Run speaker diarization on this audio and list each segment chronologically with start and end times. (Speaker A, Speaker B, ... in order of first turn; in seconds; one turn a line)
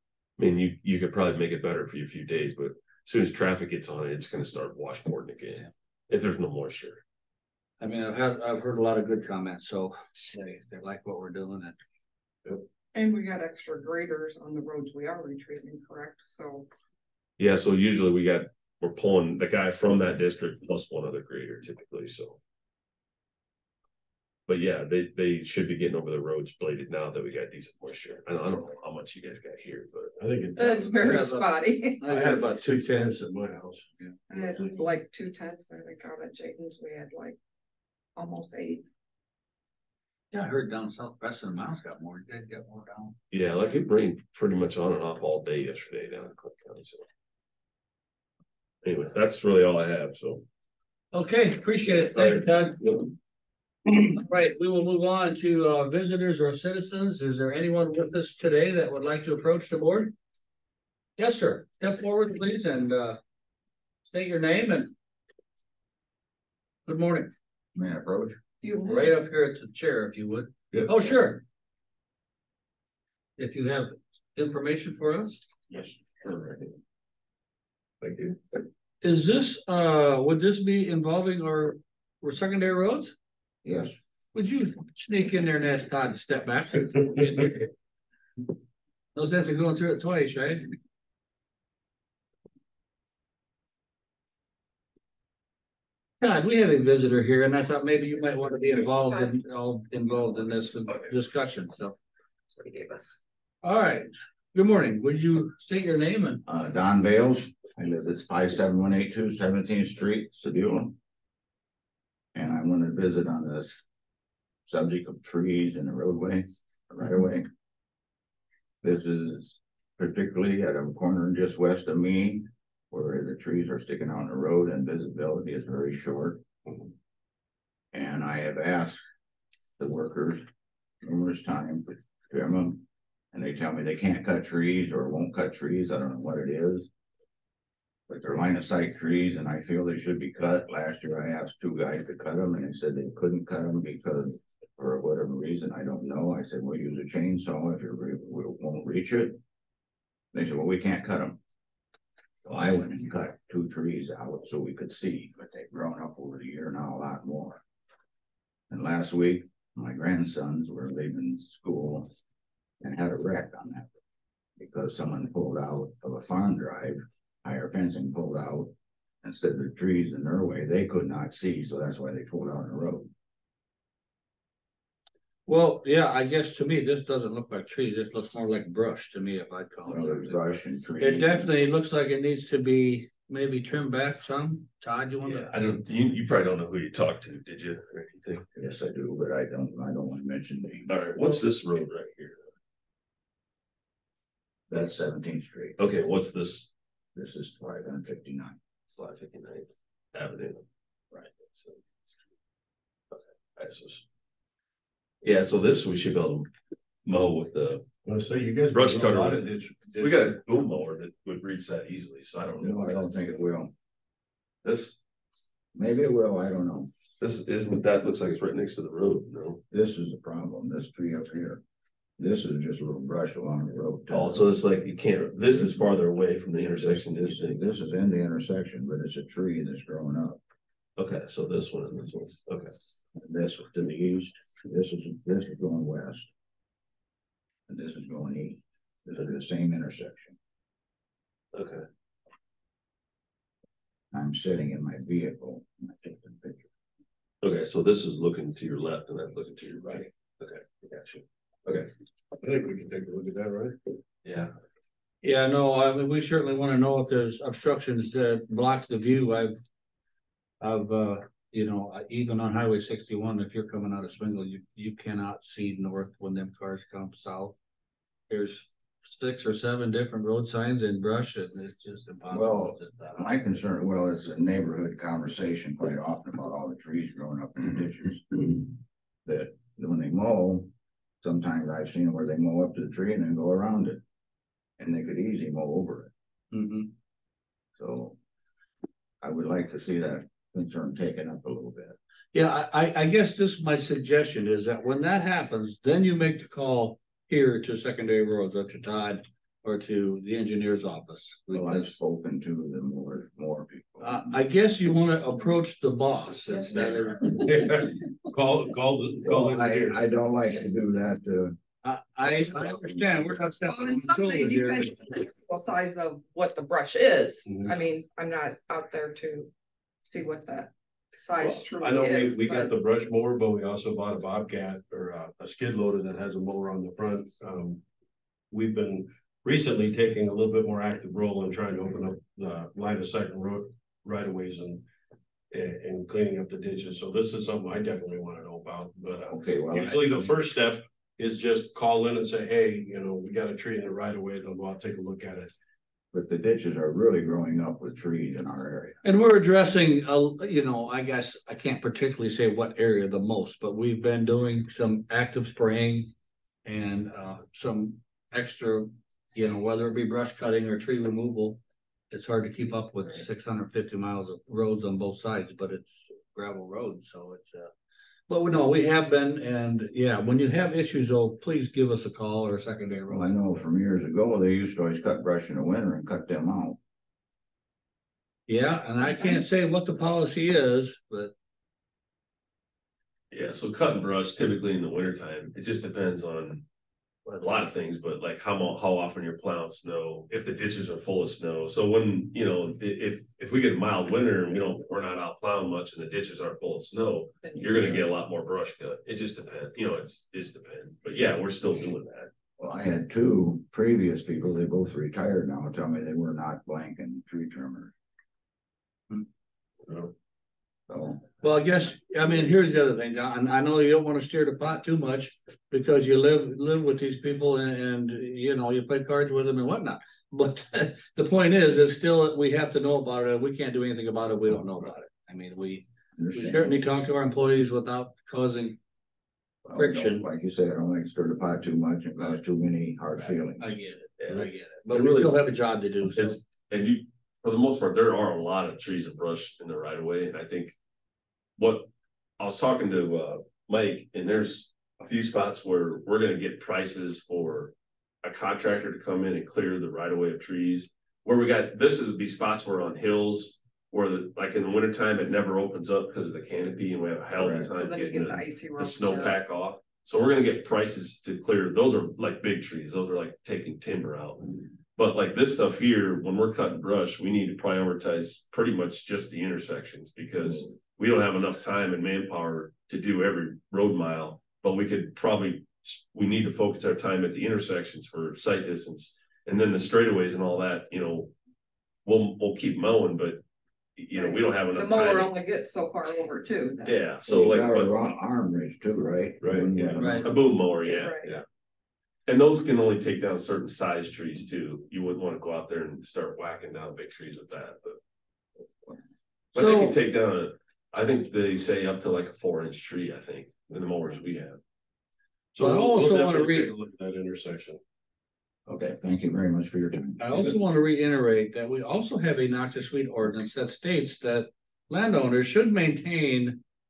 Speaker A: 0.4-7.0
Speaker B: 7.8-11.8
Speaker C: 12.9-16.7
Speaker A: 17.4-22.4
Speaker A: 24.5-30.1
Speaker D: 30.2-31.4
Speaker C: 30.6-32.0
Speaker B: 31.0-31.5
Speaker B: 32.0-33.3
Speaker D: 32.0-33.8
Speaker C: 34.3-37.4
Speaker D: 34.4-34.8
Speaker C: 38.1-38.8
Speaker B: 40.3-43.1
Speaker A: 43.3-47.0
Speaker A: 48.8-50.4
Speaker B: 51.1-53.1
Speaker B: 54.1-60.1
Speaker B: 61.2-63.2
Speaker B: 64.0-64.9
Speaker B: 66.9-67.3
Speaker E: 67.7-68.4
Speaker C: 68.6-69.2
Speaker B: 68.8-71.4
Speaker B: 73.4-75.4
Speaker D: 78.0-78.4
Speaker B: 79.0-83.1
Speaker E: 83.6-83.9
Speaker B: 84.3-87.7
Speaker B: 89.1-90.7
Speaker B: 96.2-101.9
Speaker C: 99.0-99.3
Speaker C: 102.5-103.2
Speaker B: 103.6-106.4
Speaker E: 106.5-111.0
Speaker E: 112.3-113.8
Speaker E: 114.7-117.5
Speaker E: 118.8-126.4
Speaker E: 127.9-129.0
Speaker E: 129.8-130.5
Speaker E: 131.0-136.9
Speaker E: 138.1-149.4
Speaker E: 150.3-151.4
Speaker E: 152.4-157.6
Speaker E: 158.7-162.1
Speaker E: 162.8-163.9
Speaker E: 164.6-173.1
Speaker B: 175.5-185.8
Speaker E: 179.8-181.5
Speaker A: 185.2-188.4
Speaker E: 188.6-190.9
Speaker A: 190.9-192.4
Speaker E: 194.7-195.8
Speaker A: 195.8-196.7
Speaker E: 197.1-198.6
Speaker A: 198.9-200.6
Speaker A: 203.1-204.0
Speaker A: 205.2-206.5
Speaker A: 207.1-207.8
Speaker D: 208.1-210.4
Speaker A: 208.7-209.4
Speaker A: 210.0-213.3
Speaker E: 212.6-213.7
Speaker A: 214.6-215.0
Speaker E: 215.7-216.9
Speaker A: 217.2-219.6
Speaker E: 219.7-221.6
Speaker E: 222.2-224.5
Speaker A: 224.1-227.7
Speaker E: 226.6-230.4
Speaker A: 231.0-232.7
Speaker E: 233.2-236.3
Speaker E: 237.7-240.3
Speaker A: 241.5-241.8
Speaker E: 244.1-246.7
Speaker A: 247.4-250.6
Speaker D: 251.7-253.9
Speaker B: 255.2-259.6
Speaker B: 260.6-267.6
Speaker B: 268.3-273.4
Speaker E: 272.3-284.0
Speaker E: 284.8-286.1
Speaker B: 286.5-286.9
Speaker E: 287.8-288.2
Speaker E: 289.2-291.9
Speaker B: 292.3-301.9
Speaker E: 301.5-304.3
Speaker B: 304.0-307.6
Speaker D: 306.7-310.0
Speaker E: 309.2-311.6
Speaker B: 311.8-314.9
Speaker C: 313.6-319.5
Speaker D: 317.5-317.7
Speaker C: 320.0-322.7
Speaker D: 321.4-327.8
Speaker D: 328.5-334.8
Speaker D: 335.5-345.5
Speaker E: 339.3-340.3
Speaker E: 346.1-349.0
Speaker B: 349.0-356.1
Speaker B: 356.6-361.6
Speaker B: 362.1-367.7
Speaker B: 368.3-373.3
Speaker E: 373.1-376.8
Speaker B: 378.5-381.3
Speaker A: 383.3-386.6
Speaker A: 387.3-402.3
Speaker C: 397.4-398.1
Speaker E: 402.6-407.9
Speaker D: 409.9-410.1
Speaker E: 410.9-411.3
Speaker B: 411.4-428.8
Speaker E: 426.1-426.8
Speaker E: 429.6-433.8
Speaker B: 429.8-430.2
Speaker B: 433.6-436.4
Speaker A: 434.2-435.4
Speaker A: 436.0-440.8
Speaker A: 441.6-481.3
Speaker E: 457.4-457.7
Speaker C: 457.7-459.4
Speaker A: 482.0-483.4
Speaker A: 484.0-485.3
Speaker C: 484.1-487.1
Speaker A: 486.8-488.2
Speaker E: 487.2-490.3
Speaker D: 489.4-490.3
Speaker B: 490.0-490.3
Speaker A: 490.2-491.3
Speaker C: 490.8-491.3
Speaker A: 492.3-497.9
Speaker A: 499.5-504.6
Speaker B: 499.6-500.0
Speaker D: 505.5-507.8
Speaker B: 505.6-506.7
Speaker E: 508.7-510.5
Speaker B: 510.2-516.6